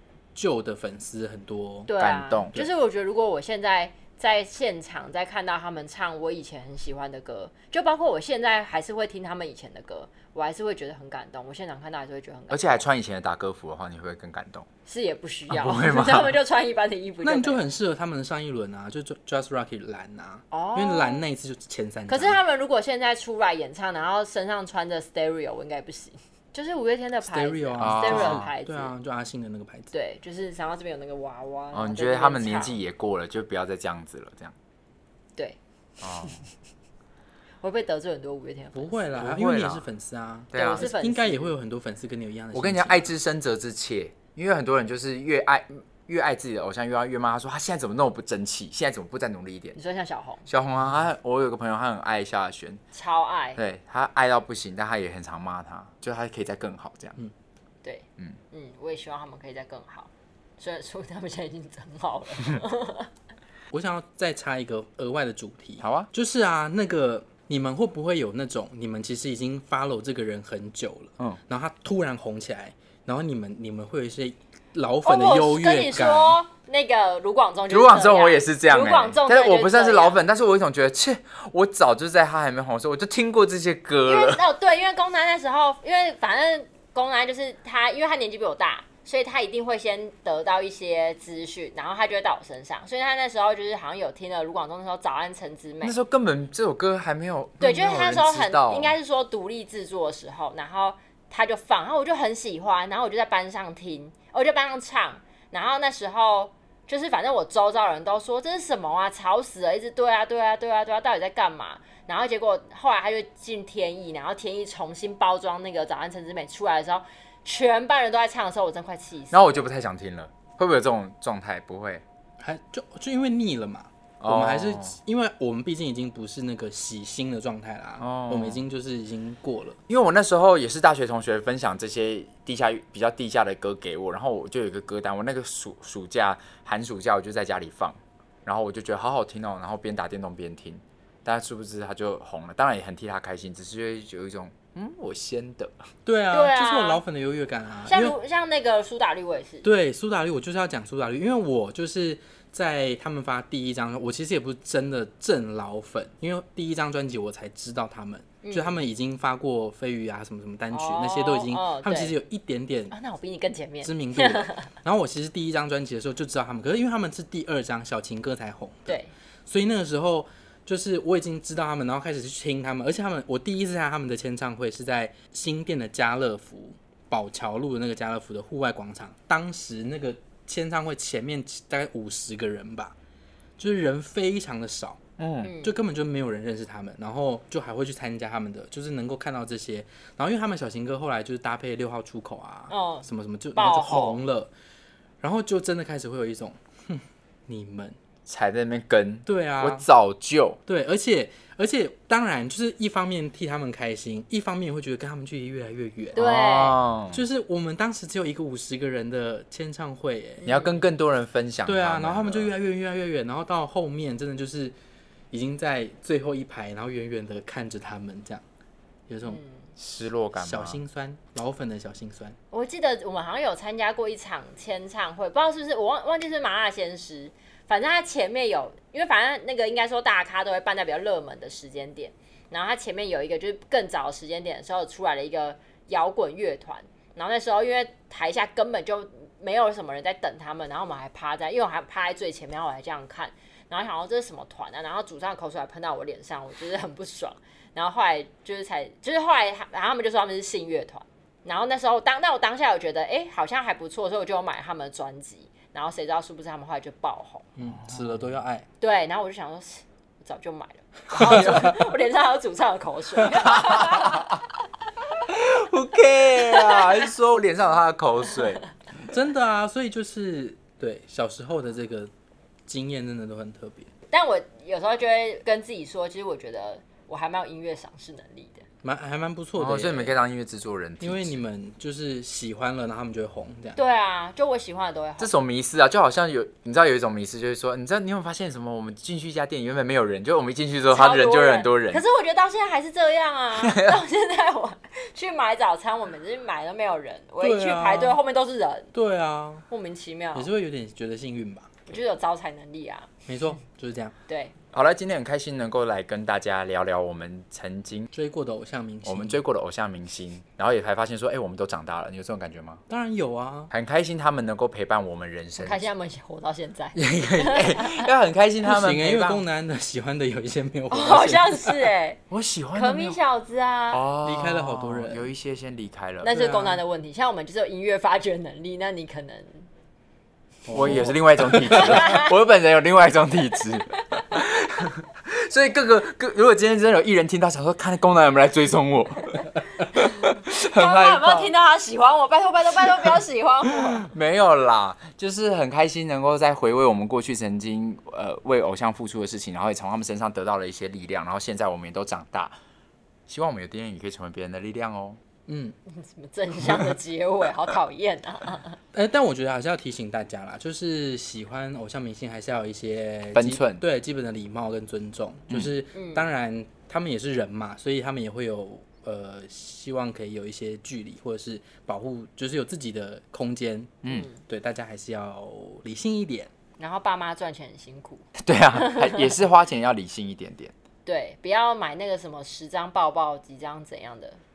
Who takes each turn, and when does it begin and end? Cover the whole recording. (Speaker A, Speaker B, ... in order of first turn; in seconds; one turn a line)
Speaker A: 0.3-1.9
Speaker B: 1.9-12.8
Speaker C: 2.0-2.6
Speaker C: 12.5-14.7
Speaker B: 14.8-17.6
Speaker C: 15.5-16.4
Speaker A: 17.2-22.4
Speaker B: 20.5-21.2
Speaker B: 22.1-28.9
Speaker A: 27.2-29.9
Speaker C: 27.8-28.5
Speaker B: 29.9-32.8
Speaker C: 31.7-34.5
Speaker B: 35.4-36.4
Speaker C: 36.0-36.4
Speaker B: 37.6-39.0
Speaker A: 38.7-43.1
Speaker C: 39.1-39.9
Speaker C: 40.5-40.9
Speaker B: 40.5-41.5
Speaker C: 42.5-49.8
Speaker B: 49.7-50.4
Speaker C: 50.5-52.8
Speaker B: 52.9-53.6
Speaker C: 53.5-57.2
Speaker B: 57.8-63.1
Speaker A: 63.7-76.4
Speaker C: 65.8-66.1
Speaker B: 75.0-80.2
Speaker C: 77.7-84.4
Speaker B: 84.0-96.0
Speaker C: 95.8-98.9
Speaker B: 97.6-119.7
Speaker C: 119.3-122.0
Speaker A: 122.4-129.8
Speaker C: 124.2-125.0
Speaker C: 128.0-128.6
Speaker C: 129.9-145.9
Speaker A: 146.1-148.2
Speaker B: 146.3-147.0
Speaker B: 147.9-149.7
Speaker A: 149.6-162.9
Speaker B: 158.4-158.8
Speaker B: 160.7-162.2
Speaker B: 162.9-164.7
Speaker A: 163.8-182.9
Speaker A: 183.6-185.0
Speaker C: 185.2-185.5
Speaker B: 185.4-185.7
Speaker A: 185.6-194.5
Speaker B: 192.7-194.2
Speaker A: 195.2-197.9
Speaker C: 198.2-200.6
Speaker A: 199.2-199.8
Speaker A: 200.7-206.2
Speaker B: 206.1-206.8
Speaker C: 206.1-207.2
Speaker A: 207.1-210.6
Speaker C: 210.4-212.5
Speaker A: 211.7-214.7
Speaker A: 215.3-218.4
Speaker A: 219.1-219.4
Speaker B: 219.2-219.6
Speaker C: 219.8-220.8
Speaker A: 220.4-222.4
Speaker B: 222.5-257.4
Speaker A: 257.6-258.6
Speaker C: 257.7-258.3
Speaker B: 258.8-264.3
Speaker C: 261.1-261.8
Speaker A: 261.1-261.8
Speaker C: 263.4-264.4
Speaker C: 265.2-268.6
Speaker B: 266.4-267.0
Speaker A: 269.1-272.1
Speaker A: 272.7-273.9
Speaker B: 274.1-278.6
Speaker A: 278.8-280.1
Speaker C: 279.6-281.4
Speaker A: 281.0-283.8
Speaker B: 283.8-285.3
Speaker C: 285.2-292.0
Speaker B: 290.9-298.9
Speaker C: 293.6-294.0
Speaker A: 297.4-298.2
Speaker A: 298.9-299.6
Speaker B: 299.7-300.5
Speaker A: 300.3-301.8
Speaker B: 301.9-303.1
Speaker A: 303.3-304.1
Speaker B: 304.3-304.5
Speaker C: 304.7-308.1
Speaker A: 308.1-309.4
Speaker C: 309.0-312.8
Speaker A: 312.9-313.7
Speaker C: 313.7-315.9
Speaker B: 315.6-318.1
Speaker C: 316.9-319.4
Speaker A: 318.6-321.9
Speaker B: 320.9-322.2
Speaker C: 322.3-323.2
Speaker B: 322.7-324.0
Speaker C: 323.9-326.3
Speaker A: 324.2-325.2
Speaker B: 326.2-329.7
Speaker A: 326.3-326.8
Speaker A: 330.6-332.0
Speaker C: 330.7-341.5
Speaker B: 331.7-332.3
Speaker B: 340.5-344.1
Speaker C: 343.9-352.5
Speaker C: 353.3-355.2
Speaker A: 355.5-355.7
Speaker B: 355.9-358.8
Speaker A: 358.9-376.5
Speaker C: 363.3-363.8
Speaker B: 365.9-366.3
Speaker B: 374.1-374.4
Speaker B: 376.8-379.3
Speaker C: 378.4-380.7
Speaker B: 381.0-384.4